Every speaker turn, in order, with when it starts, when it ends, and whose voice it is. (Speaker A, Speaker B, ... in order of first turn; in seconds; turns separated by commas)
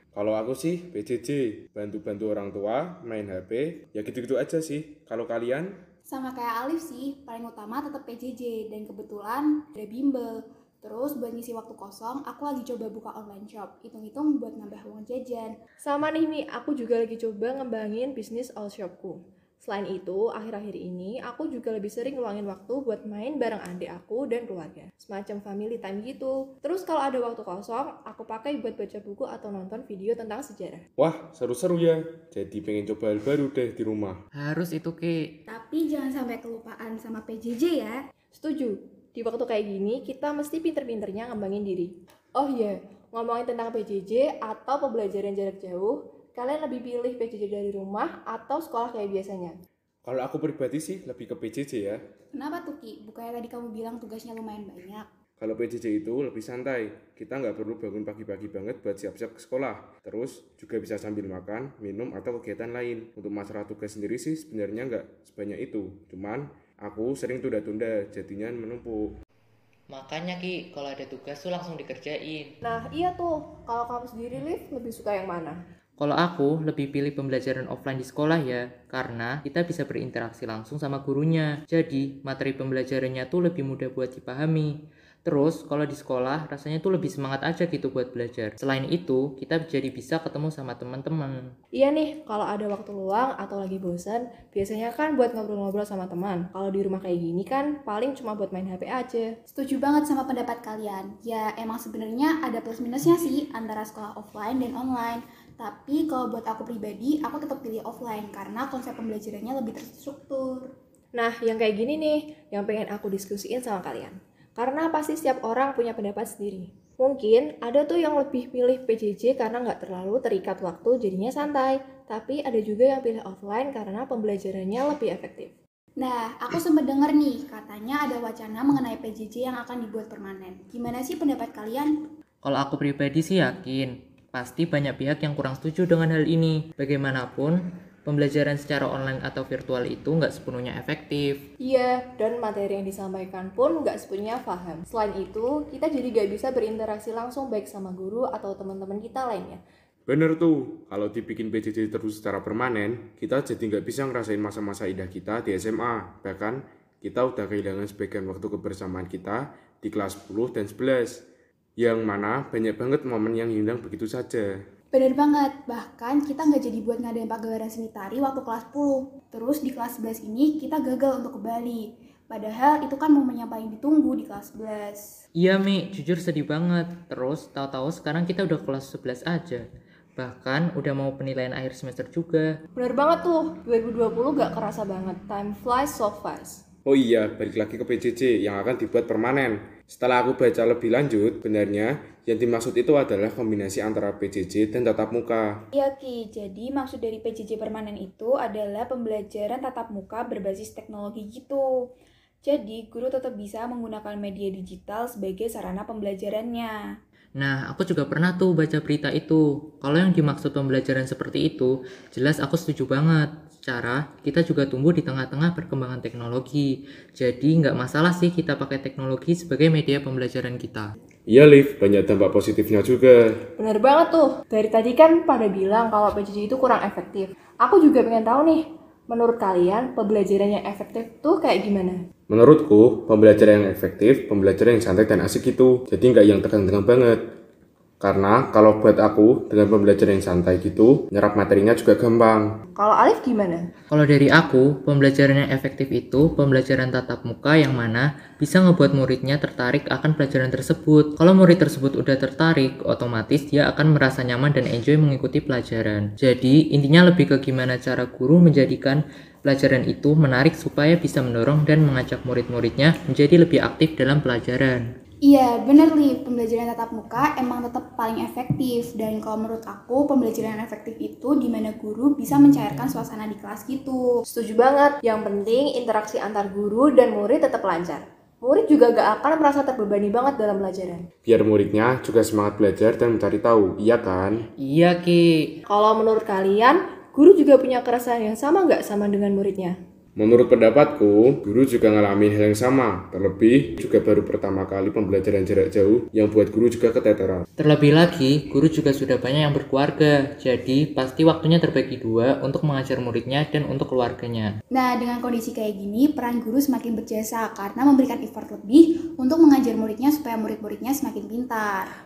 Speaker A: 0.1-5.8, Speaker B: 6.1-15.5, Speaker C: 15.8-30.8, Speaker A: 31.0-34.2, Speaker D: 34.4-35.4, Speaker B: 35.5-38.0, Speaker C: 38.3-49.5, Speaker A: 50.0-52.0, Speaker B: 52.3-55.1, Speaker A: 55.4-69.2, Speaker D: 69.9-72.5, Speaker C: 72.6-75.6, Speaker D: 76.0-84.7, Speaker D: 85.2-91.3, Speaker C: 91.8-99.3, Speaker B: 99.5-110.7, Speaker C: 111.1-125.5, Speaker B: 126.0-131.9, Speaker D: 132.4-141.4, Speaker C: 141.6-149.6, Speaker A: 150.1-161.2, Speaker A: 161.8-164.6, Speaker B: 164.9-175.1, Speaker D: 175.4-179.6, Speaker D: 180.2-182.5, Speaker C: 182.8-186.6, Speaker A: 186.8-195.6, Speaker B: 195.7-201.7, Speaker B: 202.4-206.8, Speaker D: 207.4-220.9, Speaker A: 221.3-223.4, Speaker C: 223.6-232.0, Speaker A: 232.3-237.2, Speaker A: 238.0-242.5, Speaker C: 242.8-243.6, Speaker D: 243.9-264.8, Speaker B: 265.2-274.1, Speaker D: 272.3-273.0, Speaker C: 274.3-281.0, Speaker A: 281.2-284.4, Speaker D: 284.6-285.5, Speaker C: 285.7-289.7, Speaker A: 290.2-297.4, Speaker D: 297.6-304.5, Speaker B: 304.7-311.9